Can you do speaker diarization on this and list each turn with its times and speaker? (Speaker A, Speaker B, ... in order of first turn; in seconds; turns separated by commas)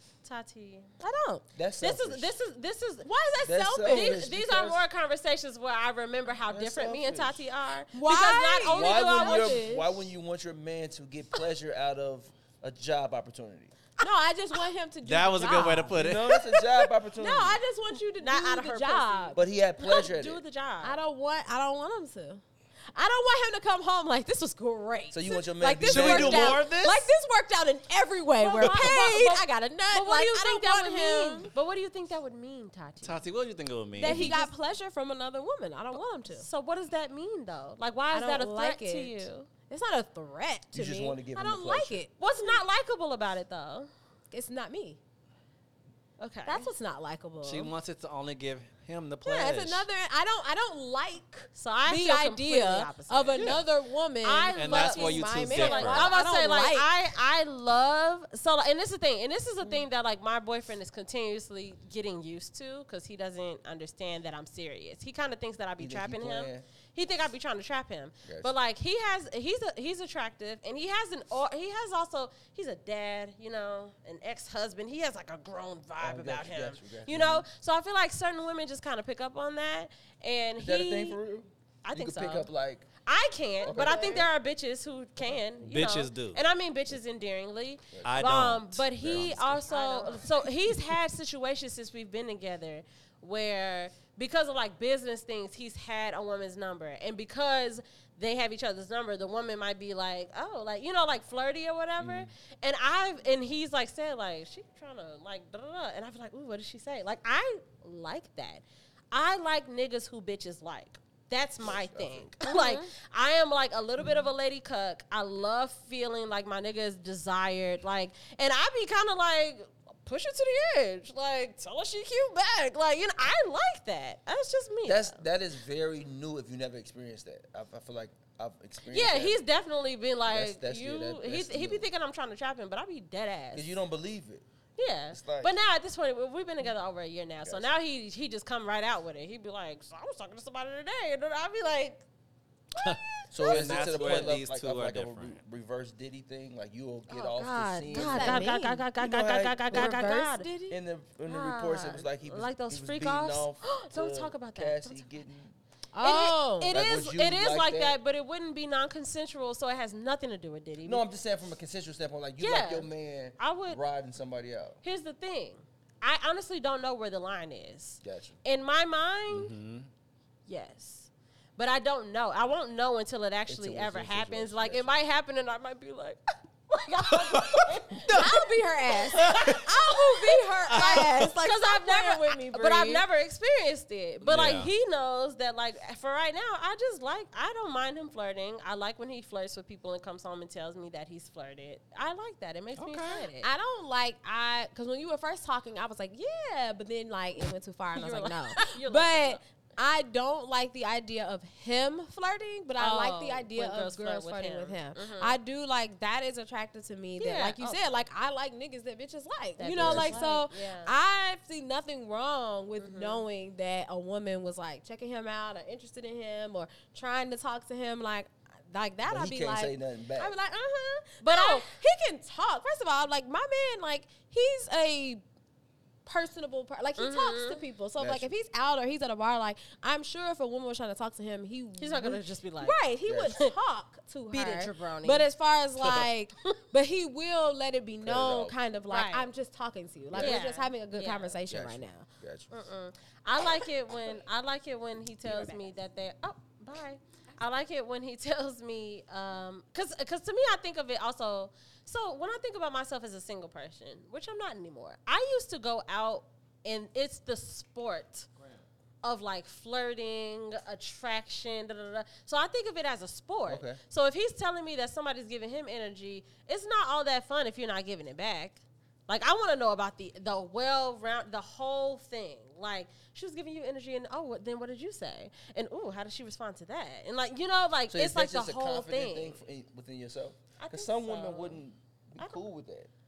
Speaker A: 0.2-0.9, Speaker B: 1.0-1.4, Speaker C: 1.6-2.3, Speaker A: 1.8-3.1, Speaker B: 3.0-4.2, Speaker C: 3.4-4.8, Speaker A: 3.8-9.9, Speaker C: 6.5-7.4, Speaker B: 7.9-9.7, Speaker C: 8.7-13.7, Speaker B: 14.0-19.4, Speaker D: 15.0-16.3, Speaker C: 15.9-17.6, Speaker A: 18.2-21.0, Speaker C: 19.4-20.4, Speaker B: 20.8-31.5, Speaker C: 25.1-26.7, Speaker D: 25.8-27.2, Speaker A: 28.4-33.2, Speaker D: 33.0-34.5, Speaker B: 34.0-36.5, Speaker A: 34.0-34.5, Speaker A: 36.3-39.5, Speaker B: 38.1-42.6, Speaker C: 40.7-42.0, Speaker A: 42.2-43.9, Speaker B: 44.3-45.0, Speaker A: 46.2-46.7, Speaker B: 46.5-47.7, Speaker D: 47.4-49.9, Speaker B: 49.2-56.9, Speaker A: 51.5-53.6, Speaker D: 53.4-53.6, Speaker A: 54.2-81.2, Speaker D: 54.5-56.2, Speaker C: 65.8-66.7, Speaker C: 68.2-68.5, Speaker C: 76.0-77.5, Speaker C: 80.6-82.9, Speaker A: 81.8-82.5, Speaker A: 83.0-125.2, Speaker C: 83.6-84.3, Speaker B: 83.7-84.3, Speaker D: 85.7-86.4, Speaker C: 87.9-88.3, Speaker D: 88.0-89.5, Speaker C: 89.0-89.7, Speaker B: 89.6-90.2, Speaker C: 102.0-102.3, Speaker C: 111.6-112.3, Speaker B: 112.4-112.9, Speaker C: 124.8-129.4, Speaker A: 128.9-133.7, Speaker C: 130.3-131.9, Speaker C: 133.5-134.4, Speaker A: 134.8-142.1, Speaker C: 135.1-135.5, Speaker C: 137.4-137.7, Speaker A: 142.8-144.4, Speaker D: 142.8-145.4, Speaker C: 143.3-150.1, Speaker A: 147.1-150.5, Speaker B: 147.9-148.9, Speaker B: 149.7-150.8, Speaker C: 150.7-155.6, Speaker A: 151.3-155.1, Speaker B: 155.9-156.8, Speaker A: 156.0-161.0, Speaker C: 156.6-158.0, Speaker C: 160.8-164.8, Speaker A: 162.4-163.8, Speaker A: 164.8-169.6, Speaker C: 168.0-168.4, Speaker D: 169.3-169.9, Speaker A: 170.5-178.5, Speaker C: 173.5-174.9, Speaker D: 177.3-177.6, Speaker B: 178.1-183.1, Speaker A: 179.1-193.5, Speaker D: 179.2-179.7, Speaker D: 180.7-181.3, Speaker D: 184.2-184.7, Speaker D: 192.8-193.3, Speaker B: 193.3-225.2, Speaker A: 197.9-199.4, Speaker A: 202.8-205.4, Speaker A: 207.2-207.8, Speaker A: 209.6-210.9, Speaker C: 209.8-210.2, Speaker A: 212.8-213.2, Speaker C: 219.1-220.3, Speaker A: 221.2-221.7, Speaker B: 226.1-242.1, Speaker A: 227.0-227.6, Speaker C: 228.0-228.3, Speaker A: 231.8-233.5, Speaker C: 233.1-233.4, Speaker A: 234.3-235.3, Speaker C: 238.0-238.6, Speaker A: 238.9-239.3, Speaker C: 240.1-240.4, Speaker A: 240.2-241.3, Speaker C: 241.5-242.5, Speaker A: 242.5-258.3, Speaker B: 245.2-245.8, Speaker A: 259.0-279.4, Speaker C: 263.5-263.8, Speaker C: 277.9-282.9, Speaker A: 280.6-281.6